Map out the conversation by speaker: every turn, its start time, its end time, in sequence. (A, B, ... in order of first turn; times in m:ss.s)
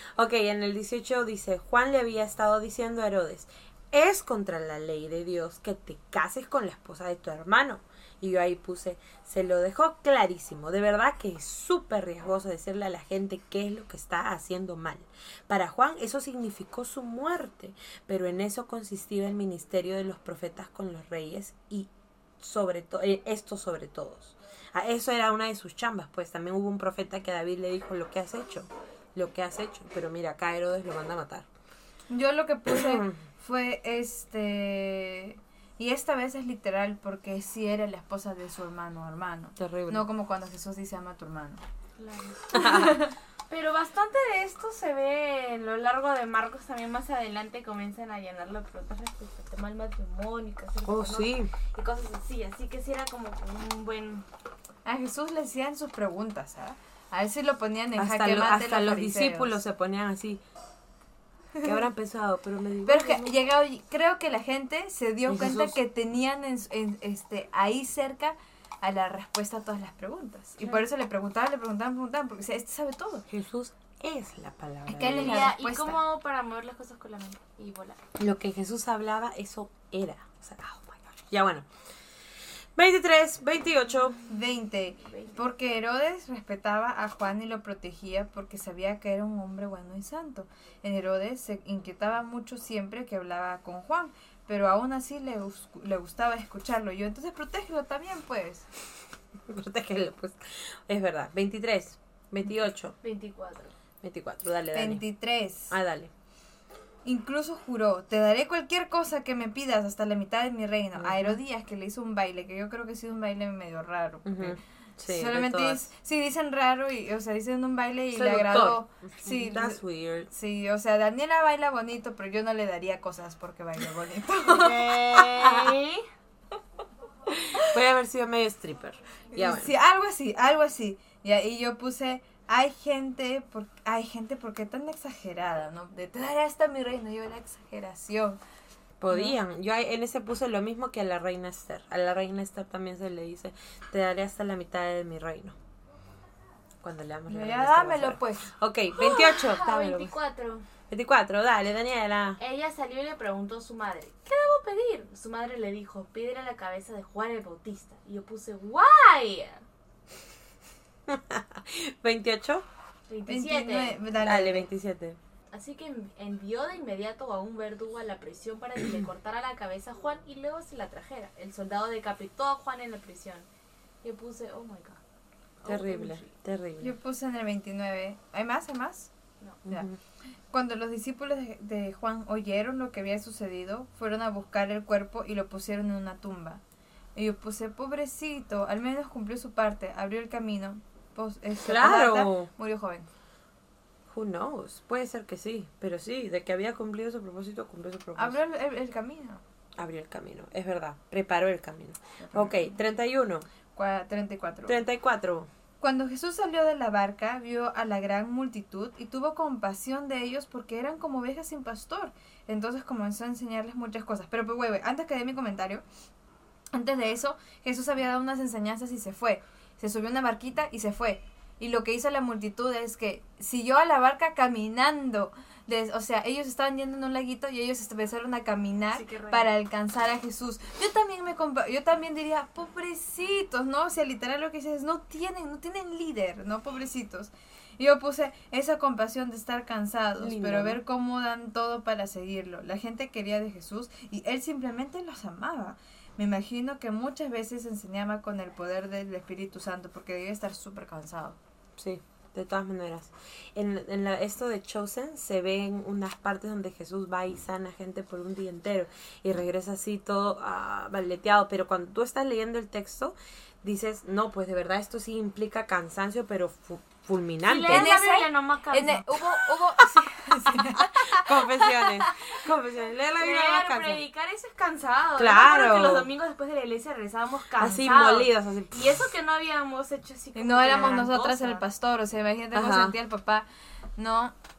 0:00.2-0:31.5 A
0:32.1-0:41.6 B
0:32.7-0:33.2 A
0:39.6-0:40.1 A
0:42.0-0:54.2 C
0:42.6-0:42.9 B
0:50.9-0:51.5 A
0:54.8-0:59.6 B
0:58.0-1:00.4 A
1:01.6-1:03.4 A
1:02.8-1:13.3 B
1:05.3-1:05.8 A
1:13.3-1:15.5 A
1:14.9-1:16.0 B
1:15.0-1:18.0 C
1:18.2-1:21.7 A
1:22.8-1:24.2 A
1:24.2-1:38.7 B
1:25.0-1:25.5 C
1:39.5-1:43.0 A
1:43.0-1:43.7 C
1:44.0-1:45.0 A
1:44.7-1:45.7 B
1:45.7-1:46.1 A
1:47.0-2:05.0 B
1:51.0-1:51.4 A
1:54.2-1:55.9 A
1:58.1-2:00.3 A
2:04.5-2:05.8 A
2:04.9-2:06.0 C
2:07.5-2:09.7 A
2:09.3-2:18.4 B
2:19.0-2:25.6 A
2:19.1-2:19.4 B
2:26.8-2:30.1 A
2:27.3-2:28.5 B
2:29.0-2:30.7 C
2:30.9-2:32.4 A
2:32.4-2:39.6 C
2:41.1-2:42.6 A
2:43.1-2:44.1 C
2:43.3-2:44.7 B
2:44.2-2:45.2 A
2:45.5-2:53.5 C
2:54.0-2:55.0 C
2:55.6-2:56.3 C
2:55.6-2:57.0 A
2:56.8-2:59.1 B
2:59.7-3:00.0 A
3:00.5-3:06.6 B
3:07.2-3:13.1 B
3:11.6-3:12.5 A
3:14.1-3:18.4 A
3:18.1-3:19.4 B
3:19.8-3:23.5 A
3:22.2-3:22.8 B
3:23.7-3:24.8 B
3:24.6-3:25.5 A
3:25.8-3:35.8 B
3:36.7-4:11.4 B
3:48.9-3:49.5 C
4:00.2-4:00.8 A
4:11.8-4:27.9 A
4:27.4-4:29.1 C
4:27.7-4:32.1 B
4:30.8-4:34.1 A
4:33.2-4:41.6 C
4:35.2-4:36.1 A
4:37.6-4:39.1 A
4:40.4-4:44.3 B
4:42.5-4:43.0 A